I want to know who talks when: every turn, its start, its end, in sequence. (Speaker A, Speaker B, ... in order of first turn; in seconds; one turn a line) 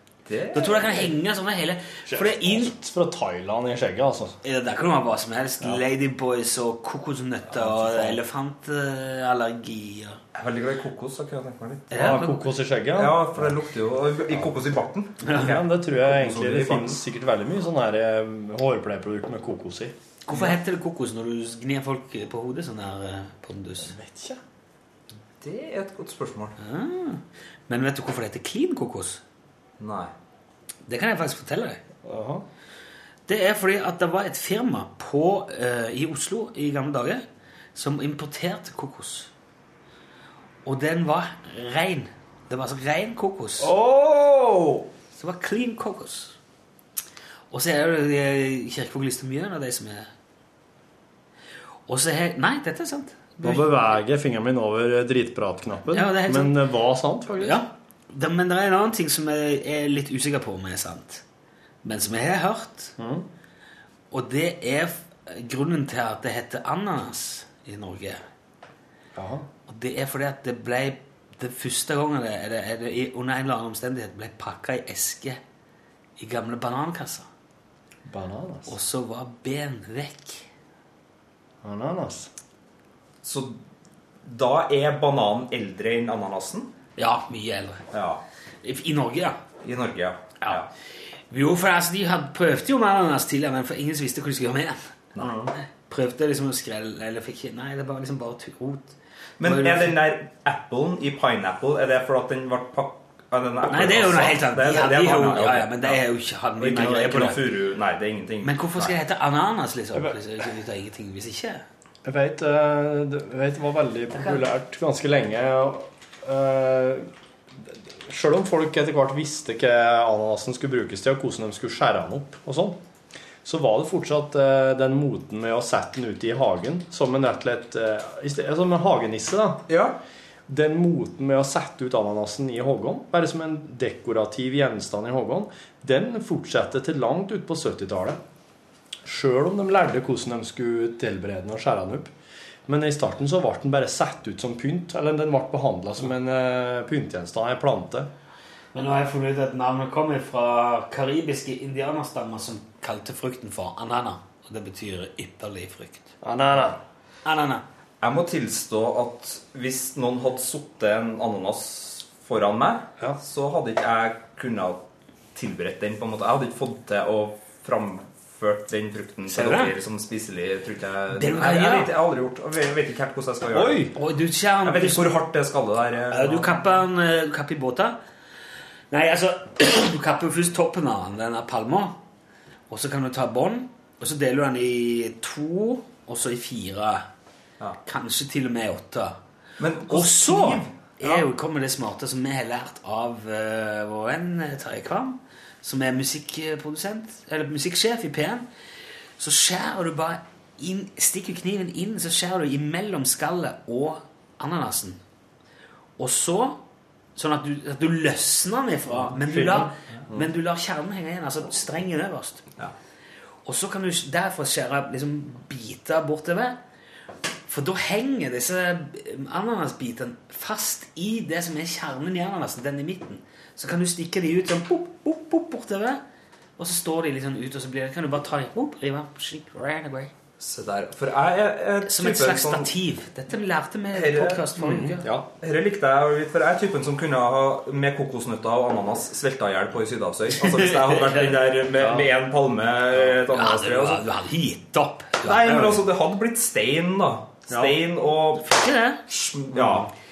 Speaker A: 0.3-1.1
Speaker B: 0.5-2.7
Speaker C: 2.1-4.4
Speaker B: 4.4-10.2
Speaker A: 7.8-8.1
Speaker A: 10.3-12.3
Speaker B: 11.9-12.4
Speaker C: 11.9-13.5
Speaker A: 12.9-17.0
Speaker B: 15.3-15.5
Speaker C: 15.3-19.9
Speaker B: 20.3-23.9
Speaker C: 23.9-24.4
Speaker A: 25.4-26.6
Speaker B: 26.6-29.2
Speaker A: 29.8-30.1
Speaker B: 30.9-31.8
Speaker C: 32.0-32.4
Speaker B: 33.3-37.2
Speaker B: 37.7-39.3
Speaker B: 40.6-43.7
Speaker C: 43.6-44.9
Speaker B: 45.1-46.3
Speaker B: 47.5-50.1
Speaker B: 51.9-53.7
Speaker C: 53.4-57.6
Speaker B: 55.9-56.6
Speaker B: 57.4-61.2
Speaker B: 61.8-62.9
Speaker C: 63.0-63.3
Speaker B: 64.1-68.2
Speaker C: 69.1-69.5
Speaker B: 69.7-75.4
Speaker B: 76.2-77.3
Speaker C: 78.0-78.7
Speaker B: 78.7-80.5
Speaker C: 81.6-82.3
Speaker A: 83.2-83.6
Speaker A: 84.2-86.7
Speaker B: 87.0-87.8
Speaker A: 87.9-88.2
Speaker B: 88.6-89.4
Speaker A: 89.6-90.7
Speaker B: 91.3-94.9
Speaker A: 95.2-95.5
Speaker B: 95.5-100.0
Speaker A: 99.4-106.0
Speaker B: 103.6-107.4
Speaker A: 106.6-109.0
Speaker B: 108.4-111.6
Speaker C: 112.0-117.1
Speaker C: 117.6-122.8
Speaker C: 123.4-129.6
Speaker A: 129.7-130.0
Speaker C: 130.5-138.2
Speaker C: 139.1-142.1
Speaker C: 142.7-148.1
Speaker B: 148.7-156.1
Speaker C: 156.2-156.8
Speaker B: 157.2-157.6
Speaker A: 158.0-164.8
Speaker A: 165.3-173.9
Speaker B: 169.3-169.7
Speaker B: 171.1-171.9
Speaker C: 173.5-173.9
Speaker B: 173.9-175.2
Speaker A: 174.6-176.6
Speaker B: 176.1-178.0
Speaker B: 178.9-182.0
Speaker B: 182.7-187.1
Speaker B: 187.8-189.2
Speaker A: 189.6-191.3
Speaker B: 189.9-198.5
Speaker B: 199.2-205.0
Speaker B: 206.0-206.6
Speaker B: 207.2-212.4
Speaker C: 209.3-209.7
Speaker B: 213.4-216.6
Speaker B: 217.5-226.0
Speaker B: 226.6-230.1
Speaker A: 230.4-232.7
Speaker B: 231.8-235.1
Speaker A: 233.9-234.5
Speaker C: 234.6-235.3
Speaker A: 235.4-244.1
Speaker B: 240.4-241.4
Speaker C: 241.8-242.1
Speaker B: 243.2-245.8
Speaker A: 245.2-249.9
Speaker C: 247.5-247.8
Speaker B: 248.4-249.0